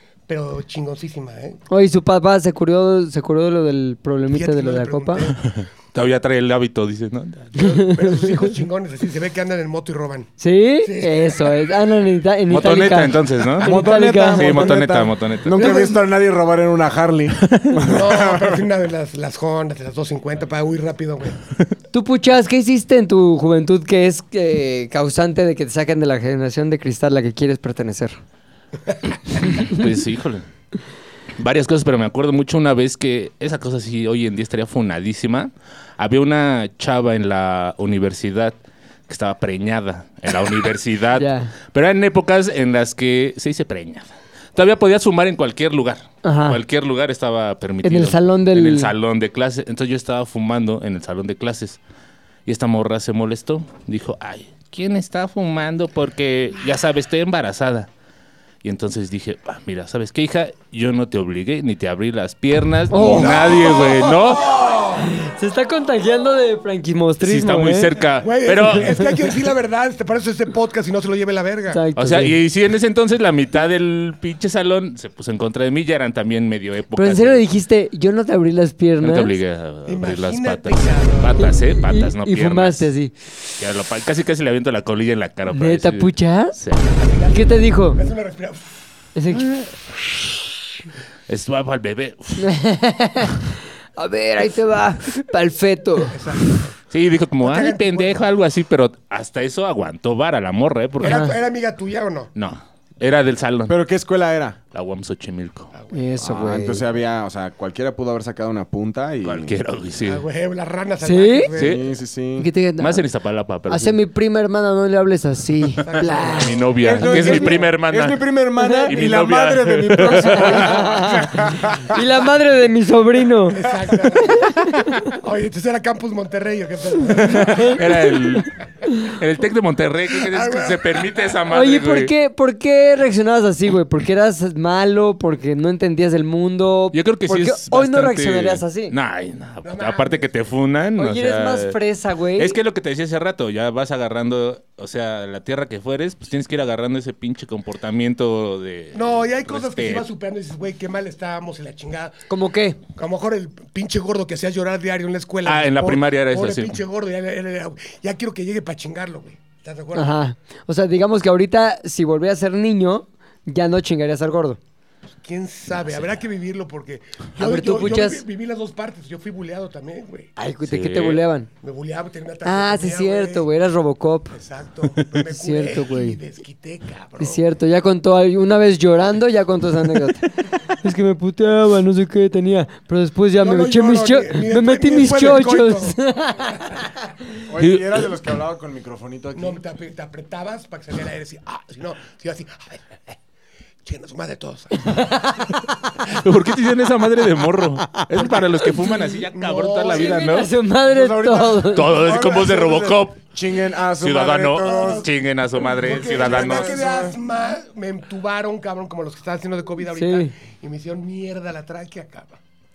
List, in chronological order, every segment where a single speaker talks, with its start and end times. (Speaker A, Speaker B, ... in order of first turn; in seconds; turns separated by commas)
Speaker A: 0.3-1.6, Speaker B: 1.7-5.3, Speaker A: 4.3-5.5, Speaker C: 5.9-8.0, Speaker B: 7.6-8.5, Speaker A: 7.8-11.5, Speaker B: 10.4-14.8, Speaker C: 12.5-15.9, Speaker D: 13.6-18.6, Speaker A: 15.6-16.0, Speaker C: 17.4-17.8, Speaker A: 17.8-21.4, Speaker B: 21.9-28.2, Speaker C: 29.5-30.5, Speaker C: 31.4-38.5, Speaker C: 39.1-51.8, Speaker B: 41.2-41.5, Speaker B: 46.2-46.6, Speaker B: 47.8-48.9, Speaker C: 52.5-57.9, Speaker C: 58.6-64.6, Speaker B: 62.9-64.0, Speaker A: 63.1-65.1, Speaker B: 64.9-67.9, Speaker C: 67.2-69.3, Speaker A: 68.2-71.8, Speaker B: 71.7-72.3, Speaker C: 72.0-77.4, Speaker B: 76.9-79.3, Speaker C: 79.0-82.9, Speaker A: 79.8-81.5, Speaker B: 81.4-83.1, Speaker C: 83.6-86.9, Speaker B: 85.5-86.6, Speaker A: 86.9-88.7, Speaker B: 87.3-88.0, Speaker B: 89.2-89.5, Speaker C: 89.3-89.7, Speaker C: 91.3-92.5, Speaker B: 92.4-96.2, Speaker A: 96.1-96.8, Speaker C: 96.9-101.3, Speaker A: 97.4-98.2, Speaker A: 101.0-102.3, Speaker B: 101.0-101.3, Speaker C: 102.4-103.8, Speaker D: 103.7-104.6, Speaker C: 104.7-105.7, Speaker B: 105.9-106.8, Speaker D: 106.2-109.6, Speaker C: 109.2-110.2, Speaker A: 110.0-111.8, Speaker B: 111.0-111.5, Speaker C: 111.5-111.8, Speaker D: 111.6-112.5, Speaker B: 112.4-113.0, Speaker C: 112.8-114.0, Speaker B: 113.7-117.6, Speaker A: 115.8-116.7, Speaker C: 116.3-118.2, Speaker D: 116.8-122.0, Speaker B: 118.6-119.0, Speaker C: 118.9-121.0, Speaker B: 120.3-123.6, Speaker A: 123.5-124.5, Speaker B: 124.3-125.1, Speaker A: 125.1-128.1, Speaker C: 127.3-132.1, Speaker B: 127.4-127.8, Speaker A: 130.2-131.2, Speaker B: 131.5-138.9, Speaker C: 136.9-141.8, Speaker A: 139.6-140.3, Speaker B: 141.0-142.6, Speaker C: 142.4-150.1, Speaker A: 148.9-152.2, Speaker B: 152.3-152.8, Speaker A: 152.8-160.2, Speaker C: 155.4-156.8, Speaker B: 159.9-164.6, Speaker A: 165.1-170.3, Speaker B: 167.4-168.2, Speaker B: 170.4-171.5, Speaker C: 170.7-171.2, Speaker A: 171.6-173.5, Speaker B: 172.4-174.4, Speaker A: 174.3-177.4, Speaker B: 175.2-176.2, Speaker B: 177.2-186.8, Speaker A: 183.4-186.0, Speaker A: 186.5-186.8, Speaker D: 187.5-189.6, Speaker C: 187.6-188.1, Speaker A: 189.3-193.1, Speaker A: 193.8-195.1, Speaker B: 194.8-195.6, Speaker C: 196.1-200.5, Speaker A: 198.2-200.5, Speaker B: 199.9-202.0, Speaker D: 200.8-205.1, Speaker C: 201.7-203.2, Speaker C: 204.0-206.8, Speaker A: 204.6-205.1, Speaker A: 205.7-212.4, Speaker D: 205.8-207.2, Speaker B: 209.9-210.3